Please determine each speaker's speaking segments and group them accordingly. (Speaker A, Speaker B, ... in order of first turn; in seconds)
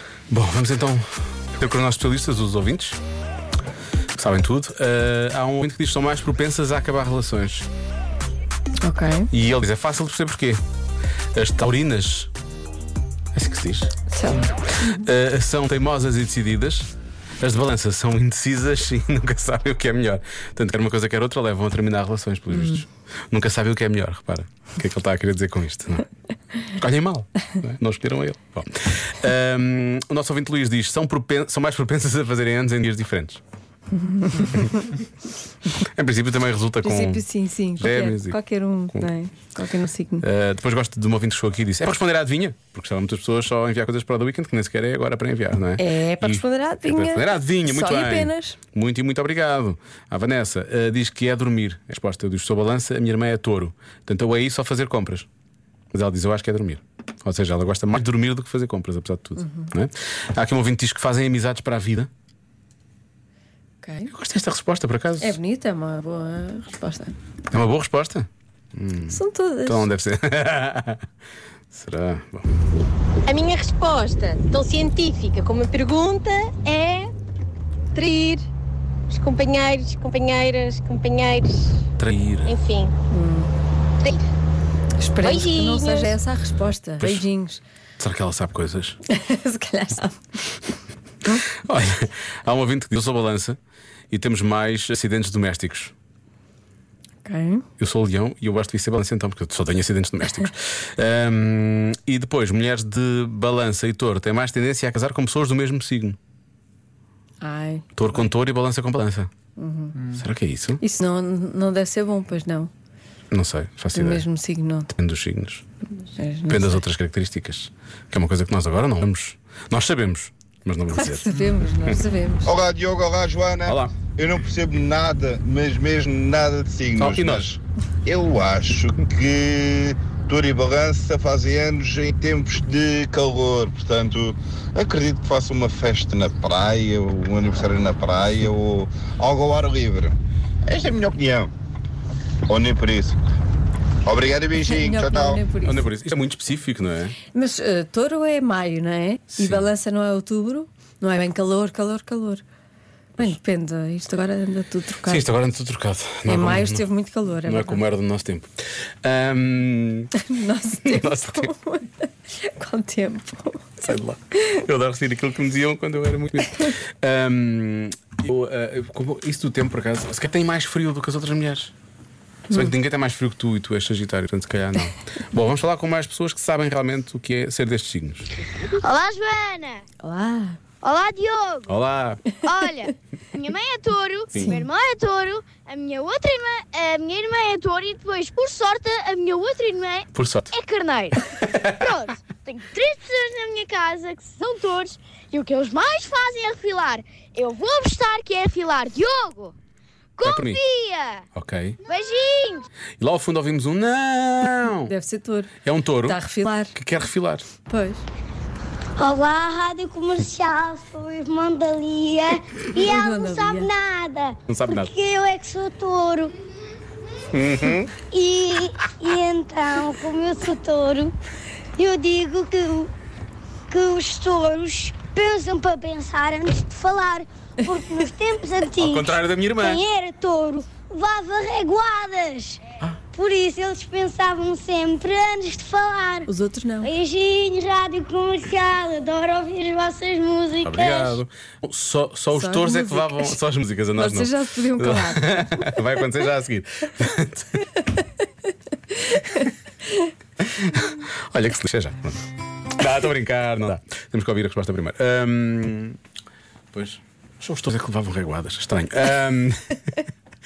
Speaker A: 0.3-3.0, 4.2-7.7, 9.3-10.6, 11.3-12.3, 13.3-13.9, 14.8-16.9, 17.4-26.1, 26.7-33.4, 34.4-34.9, 35.7-37.2, 37.8-38.4, 40.2-55.3, 55.9-62.1, 64.1-65.4, 67.5-71.1, 71.7-72.6, 82.0-82.6, 87.0-87.3, 88.0-89.0, 91.7-93.6, 94.1-95.9, 97.8-106.2, 108.0-109.3, 110.1-110.8, 113.3-114.3, 115.0-115.7, 116.5-121.3, 123.7-124.0, 127.0-127.5, 145.6-147.2, 149.4-149.7, 155.1-156.9, 157.4-158.5, 159.0-160.1, 160.8-161.5, 163.8-171.7, 172.5-178.4, 181.7-182.2, 184.3-184.6, 190.1-190.6, 191.4-191.9, 200.2-200.6, 201.3-201.8, 203.0-204.9, 205.6-207.5, 214.5-214.9, 217.3-217.9, 228.8-229.8, 240.6-247.7, 250.6-252.3, 252.8-256.0, 256.7-260.0
Speaker B: 8.8-9.3, 14.1-14.6, 34.0-34.6, 36.8-40.2, 45.8-48.6, 59.4-59.7, 63.8-64.1, 65.2-67.2, 69.1-69.9, 83.1-83.5, 85.0-87.6, 89.1-90.6, 97.2-97.7, 107.4-107.8, 109.6-110.0, 110.8-112.7, 113.9-114.9, 116.0-116.8, 120.9-122.5, 144.6-145.8, 147.3-152.4, 153.2-155.3, 156.3-157.8, 160.2-163.7, 180.0-180.6, 184.3-184.6, 204.9-205.5, 206.1-206.7, 207.7-208.0, 212.8-213.7, 236.3-236.9, 242.3-243.4, 243.9-245.8, 248.9-250.1
Speaker C: 73.3-77.1, 78.0-78.5, 79.1-81.7, 82.5-83.0, 85.2-86.2
Speaker D: 122.5-141.5, 142.5-143.2, 144.1-145.4
Speaker E: 178.7-179.8, 180.8-181.8, 182.4-199.6, 200.2-201.2, 201.9-202.7
Speaker F: 209.0-216.3, 218.1-221.1, 221.8-222.9, 223.7-232.6, 233.1-236.3, 236.8-241.2